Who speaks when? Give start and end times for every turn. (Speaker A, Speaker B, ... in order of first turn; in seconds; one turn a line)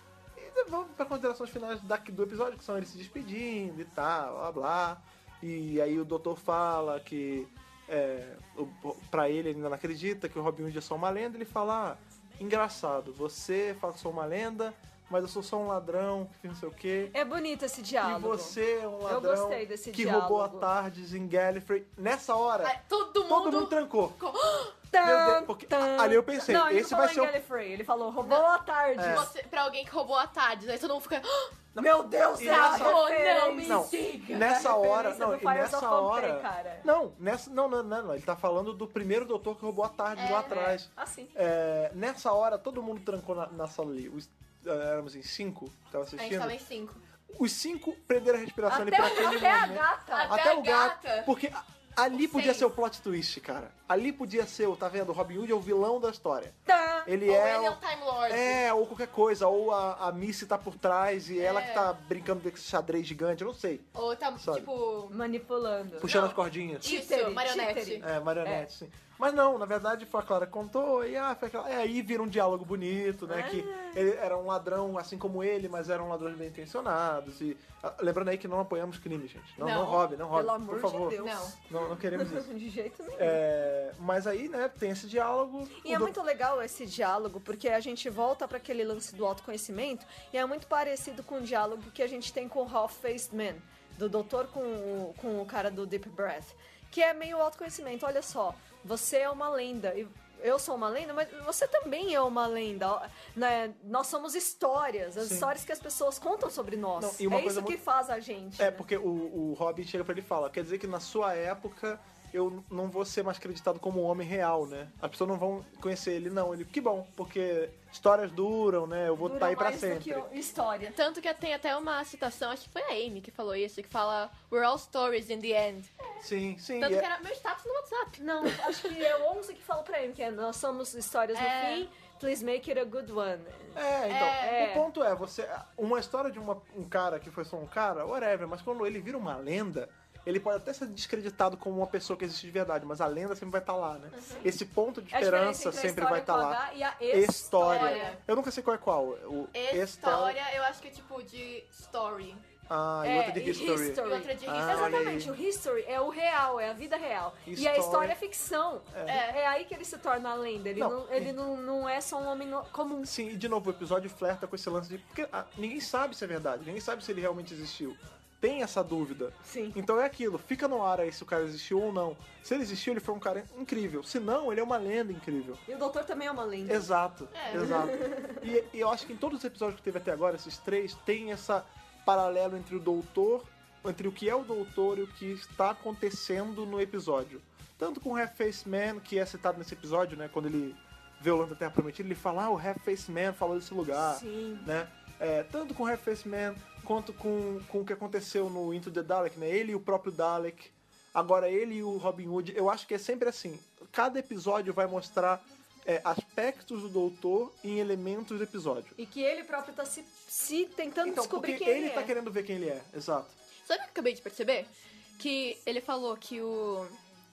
Speaker A: 0.3-17.1
Speaker B: 17.1-20.7
Speaker A: 18.0-24.2
Speaker C: 22.6-24.8
Speaker B: 24.9-29.3
Speaker A: 25.0-27.3
Speaker A: 29.0-29.3
Speaker C: 29.0-31.5
Speaker A: 31.7-33.0
Speaker B: 31.8-36.9
Speaker C: 32.4-34.2
Speaker A: 33.6-46.6
Speaker C: 40.1-40.8
Speaker B: 41.0-41.3
Speaker C: 46.2-47.0
Speaker A: 47.3-63.9
Speaker B: 48.7-50.3
Speaker C: 50.1-51.3
Speaker C: 52.1-52.7
Speaker B: 56.6-57.1
Speaker C: 57.2-58.6
Speaker C: 61.4-61.9
Speaker C: 63.9-65.2
Speaker A: 64.4-64.7
Speaker B: 65.1-66.2
Speaker A: 66.0-66.9
Speaker C: 66.0-68.0
Speaker B: 66.8-68.7
Speaker A: 68.0-82.5
Speaker B: 73.3-74.0
Speaker C: 79.6-80.0
Speaker B: 80.3-81.5
Speaker C: 81.1-81.6
Speaker B: 82.1-83.4
Speaker A: 83.2-86.1
Speaker B: 85.8-108.8
Speaker A: 105.2-105.5
Speaker A: 107.0-107.8
Speaker A: 108.6-120.2
Speaker B: 119.2-121.0
Speaker C: 120.8-126.1
Speaker A: 126.2-127.1
Speaker C: 126.8-128.9
Speaker B: 128.2-133.8
Speaker C: 131.3-131.9
Speaker A: 133.8-150.4
Speaker C: 134.1-134.6
Speaker B: 134.3-134.9
Speaker C: 144.1-144.5
Speaker B: 145.1-148.2
Speaker C: 147.6-148.2
Speaker C: 149.5-152.4
Speaker A: 152.7-155.3
Speaker B: 153.0-163.1
Speaker C: 154.0-155.1
Speaker A: 157.4-158.2
Speaker A: 158.9-159.2
Speaker C: 159.1-159.4
Speaker A: 160.8-161.3
Speaker A: 163.0-175.6
Speaker B: 169.4-169.8
Speaker B: 175.7-176.9
Speaker A: 176.7-209.0
Speaker C: 177.3-177.8
Speaker B: 177.5-178.4
Speaker B: 194.0-194.7
Speaker B: 209.0-212.1
Speaker A: 211.0-213.3
Speaker C: 213.6-217.0